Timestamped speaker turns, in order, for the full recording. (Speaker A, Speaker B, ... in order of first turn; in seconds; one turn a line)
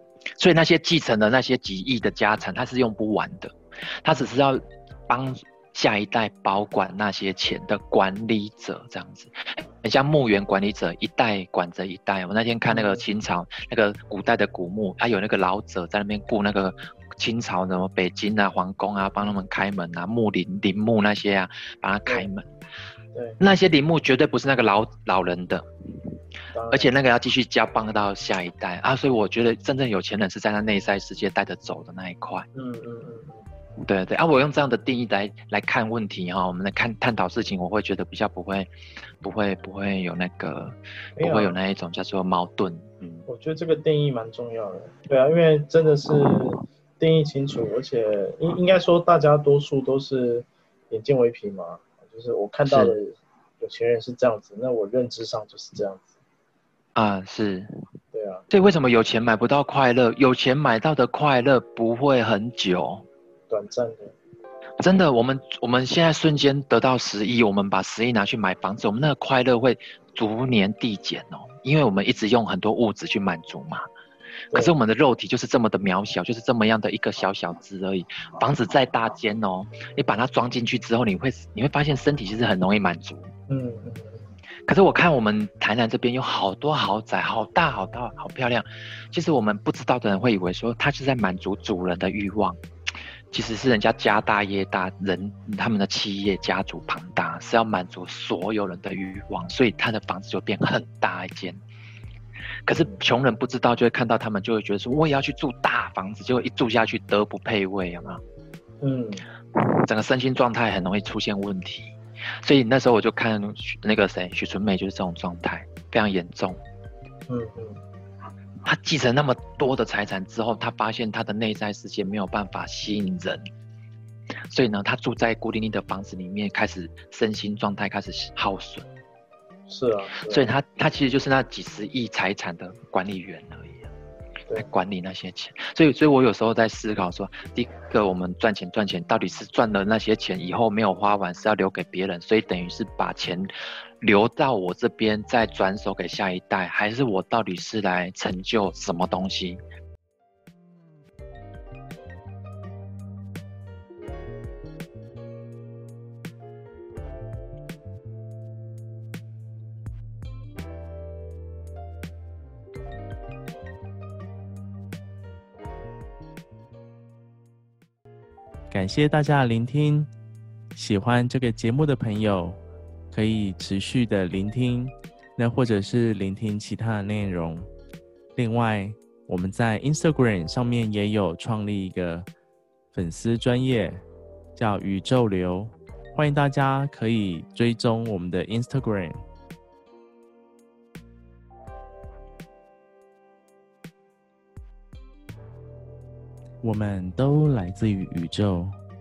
Speaker A: 0.4-22.5
Speaker B: 12.7-13.1
Speaker B: 23.1-23.4
Speaker A: 23.4-26.1
Speaker B: 26.5-26.9
Speaker A: 26.7-32.5
Speaker B: 32.5-33.5
Speaker A: 33.8-43.3
Speaker B: 41.2-41.6
Speaker B: 43.3-56.1
Speaker A: 52.7-53.0
Speaker A: 57.0-57.7
Speaker B: 58.1-58.5
Speaker A: 58.5-63.0
Speaker B: 63.5-64.2
Speaker A: 64.8-73.8
Speaker A: 74.5-83.3
Speaker B: 83.5-84.3
Speaker A: 84.7-92.6
Speaker A: 93.3-101.6
Speaker A: 102.7-108.2
Speaker B: 102.7-103.0
Speaker B: 108.8-109.3
Speaker A: 109.6-116.6
Speaker B: 117.3-117.8
Speaker A: 118.6-123.4
Speaker A: 124.5-128.9
Speaker B: 129.7-130.5
Speaker A: 130.2-133.9
Speaker A: 134.6-149.6
Speaker C: 168.7-170.1
Speaker C: 170.8-177.7
Speaker C: 178.3-182.3
Speaker C: 182.9-184.0
Speaker C: 184.6-189.2
Speaker C: 196.6-198.8